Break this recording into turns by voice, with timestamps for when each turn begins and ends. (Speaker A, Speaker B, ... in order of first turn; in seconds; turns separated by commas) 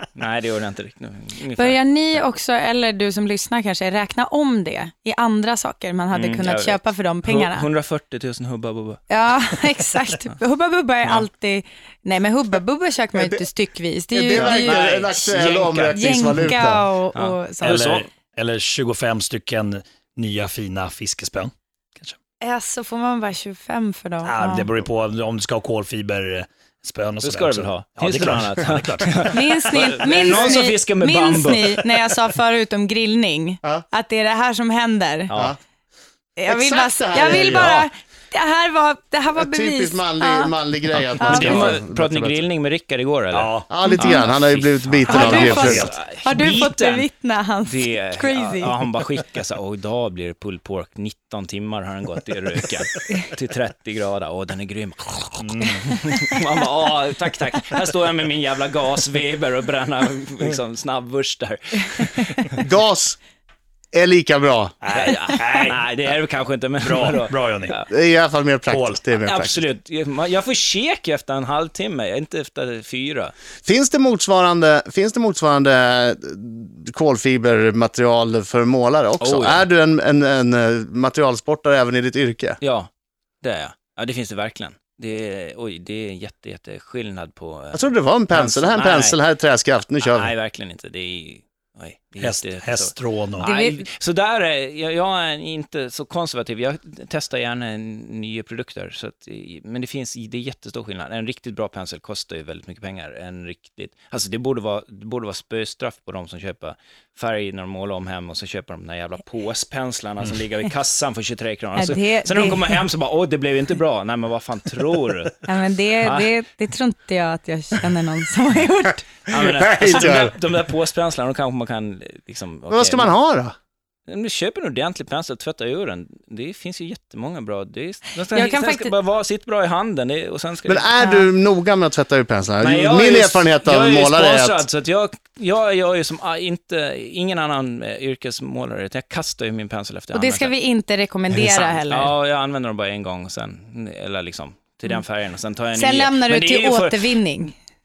Speaker A: 0.1-2.3, Speaker B: 1.6-7.7, Speaker A: 6.1-9.1, Speaker B: 9.1-15.0, Speaker C: 13.2-13.4, Speaker C: 14.1-16.9, Speaker A: 14.3-16.0, Speaker B: 15.9-17.9, Speaker A: 17.1-18.1, Speaker D: 17.6-22.2, Speaker B: 22.4-24.8, Speaker D: 24.2-29.4, Speaker A: 27.2-31.8, Speaker B: 29.3-35.3, Speaker A: 35.3-35.6, Speaker B: 36.4-40.5, Speaker C: 36.5-37.8, Speaker D: 37.2-37.8, Speaker C: 39.4-42.4, Speaker B: 41.2-41.8, Speaker A: 41.2-47.1, Speaker D: 43.3-43.7, Speaker C: 43.7-45.9, Speaker B: 43.8-44.3, Speaker D: 45.1-46.0, Speaker B: 45.1-48.7, Speaker A: 47.6-62.6, Speaker D: 55.4-56.0, Speaker C: 62.6-63.2, Speaker C: 63.9-64.8, Speaker D: 64.8-65.8, Speaker A: 64.9-67.9, Speaker D: 66.8-67.8, Speaker C: 67.9-69.6, Speaker D: 68.7-69.0, Speaker A: 69.2-73.3, Speaker C: 73.6-82.6, Speaker A: 79.2-79.6, Speaker A: 82.6-82.9, Speaker A: 83.4-89.2, Speaker C: 87.7-90.3, Speaker A: 90.0-115.4, Speaker D: 92.2-93.5, Speaker B: 93.4-93.9, Speaker B: 111.8-112.8, Speaker B: 115.5-119.0, Speaker A: 116.0-116.3, Speaker A: 119.3-123.1, Speaker C: 119.3-120.3, Speaker C: 122.7-123.5, Speaker A: 124.1-130.9, Speaker B: 128.3-128.9, Speaker C: 130.7-134.6, Speaker B: 131.0-131.3, Speaker A: 132.6-140.5, Speaker B: 140.1-142.1, Speaker A: 141.3-147.1, Speaker B: 145.7-147.5